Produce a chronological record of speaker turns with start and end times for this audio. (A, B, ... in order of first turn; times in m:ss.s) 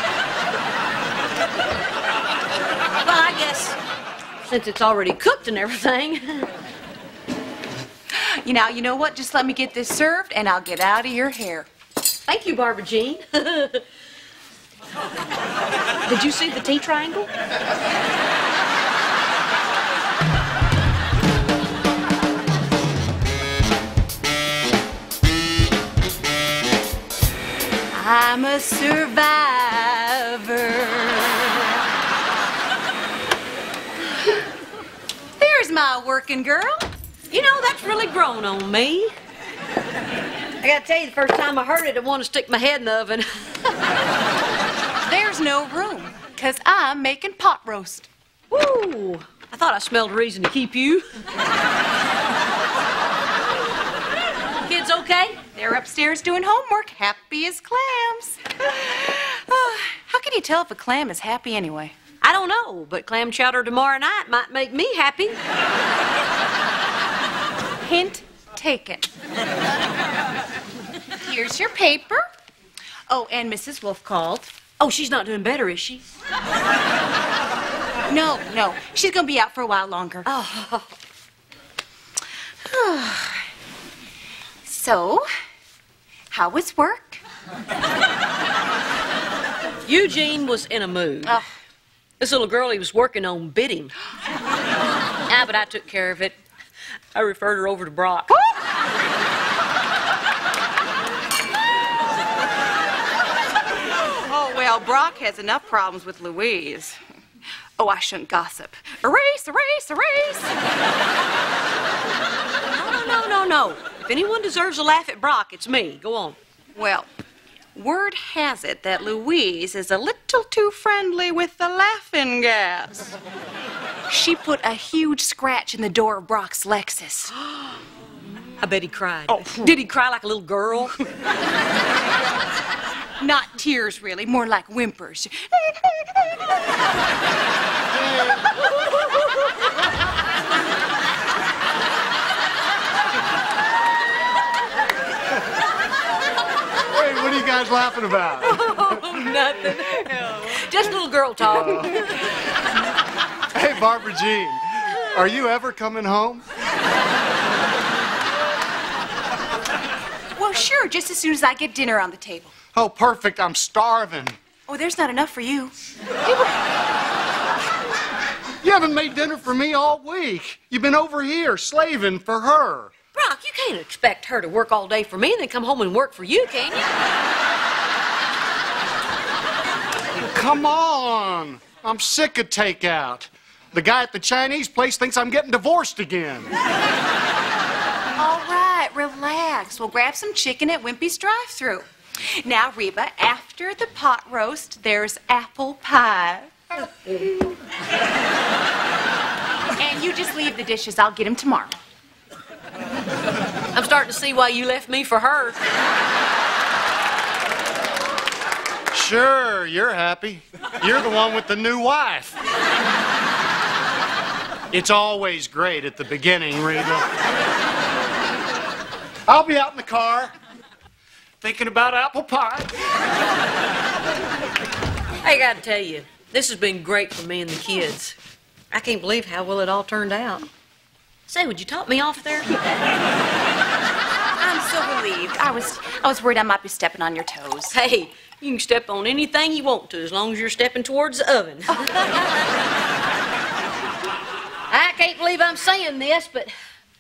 0:03.0-0:03.8 A
0:04.4-0:06.5 A
0:08.1-0:11.7 B
0:12.3-0:13.8 A
0:16.1-0:17.3 A
0:27.9-0:31.7 B
0:35.4-0:36.8 B
0:37.3-0:39.1 A
0:40.6-0:43.7 A
0:45.1-0:48.1 B
0:48.5-0:51.1 A
0:54.6-0:55.4 A
0:55.6-1:02.0 B
1:02.2-1:05.4 A
1:07.8-1:09.1 B
1:11.2-1:12.2 B
1:13.1-1:14.5 B
1:14.8-1:16.0 A
1:18.1-1:20.3 B
1:20.2-1:20.9 A
1:22.6-1:23.4 B
1:24.7-1:25.3 B
1:26.3-1:27.2 B
1:29.8-1:31.4 A
1:32.2-1:33.9 A
1:35.3-1:36.4 A
1:37.1-1:38.4 A
1:44.0-1:47.0 B
1:47.8-1:50.5 B
1:52.8-1:56.4 A
1:56.8-1:57.1 B
1:57.8-2:03.1 B
2:04.1-2:07.3 B
2:08.6-2:11.0 A
2:09.3-2:09.8 B
2:13.2-2:16.2 B
2:17.9-2:18.5 C
2:26.9-2:29.4 C
2:28.4-2:32.1 A
2:31.6-2:31.8 C
2:33.5-2:36.4 C
2:40.4-2:42.5 B
2:42.7-2:44.4 C
2:44.7-2:45.7 B
2:48.6-2:52.9 C
2:53.2-2:56.9 A
3:00.2-3:06.5 C
3:08.2-3:11.9 B
3:12.4-3:16.5 B
3:19.8-3:21.8 B
3:23.7-3:25.6 A
3:28.9-3:32.4 C
3:34.7-3:37.1 C
3:39.3-3:40.3 C
3:41.4-3:42.7 C
3:45.2-3:48.2 A
3:48.7-3:50.5 A
3:51.3-3:52.6 A
3:54.4-3:57.8 B
3:57.7-4:02.0 A
4:01.7-4:02.1 B
4:04.7-4:06.5 A